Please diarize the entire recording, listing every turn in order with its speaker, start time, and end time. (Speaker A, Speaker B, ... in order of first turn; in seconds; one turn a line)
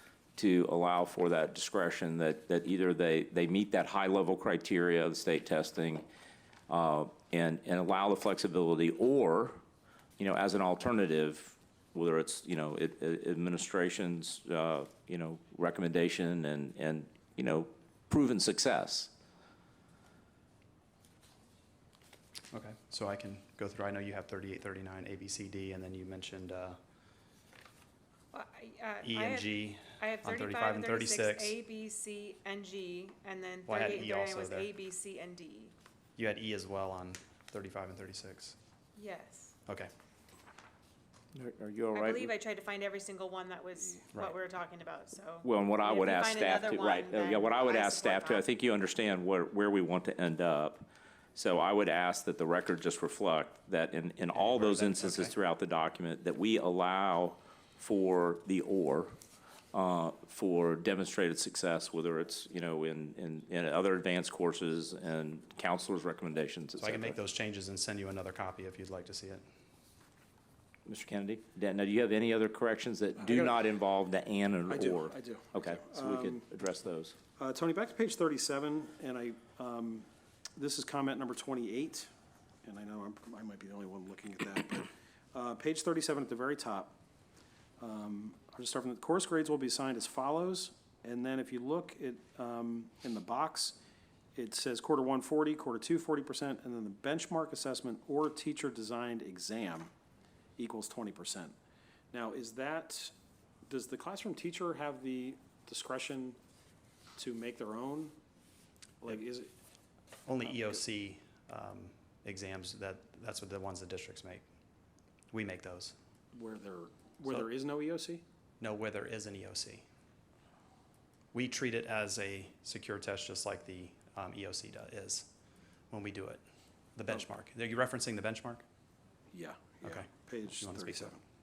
Speaker A: 0.4-6.1
Speaker A: 6.7-9.6
Speaker A: 10.2-19.1
Speaker B: 22.5-26.8
Speaker C: 28.3-35.7
Speaker B: 29.0-31.6
Speaker B: 33.7-34.7
Speaker B: 36.2-38.6
Speaker C: 39.0-39.5
Speaker A: 41.3-42.3
Speaker C: 41.9-48.5
Speaker A: 45.4-59.2
Speaker B: 54.4-55.3
Speaker A: 59.7-67.2
Speaker B: 66.8-69.4
Speaker A: 70.9-77.2
Speaker D: 74.7-76.4
Speaker D: 77.4-82.1
Speaker D: 82.6-87.0
Speaker D: 87.8-93.8
Speaker D: 94.3-99.9
Speaker D: 100.6-101.5
Speaker D: 102.1-103.1
Speaker D: 103.7-106.4
Speaker D: 107.2-108.2
Speaker D: 109.0-109.5
Speaker B: 110.3-114.5
Speaker B: 115.3-116.0
Speaker D: 116.3-118.2
Speaker B: 118.6-119.8
Speaker B: 121.3-125.3
Speaker B: 125.9-126.4
Speaker B: 127.0-128.6
Speaker D: 129.3-131.2
Speaker B: 129.8-131.2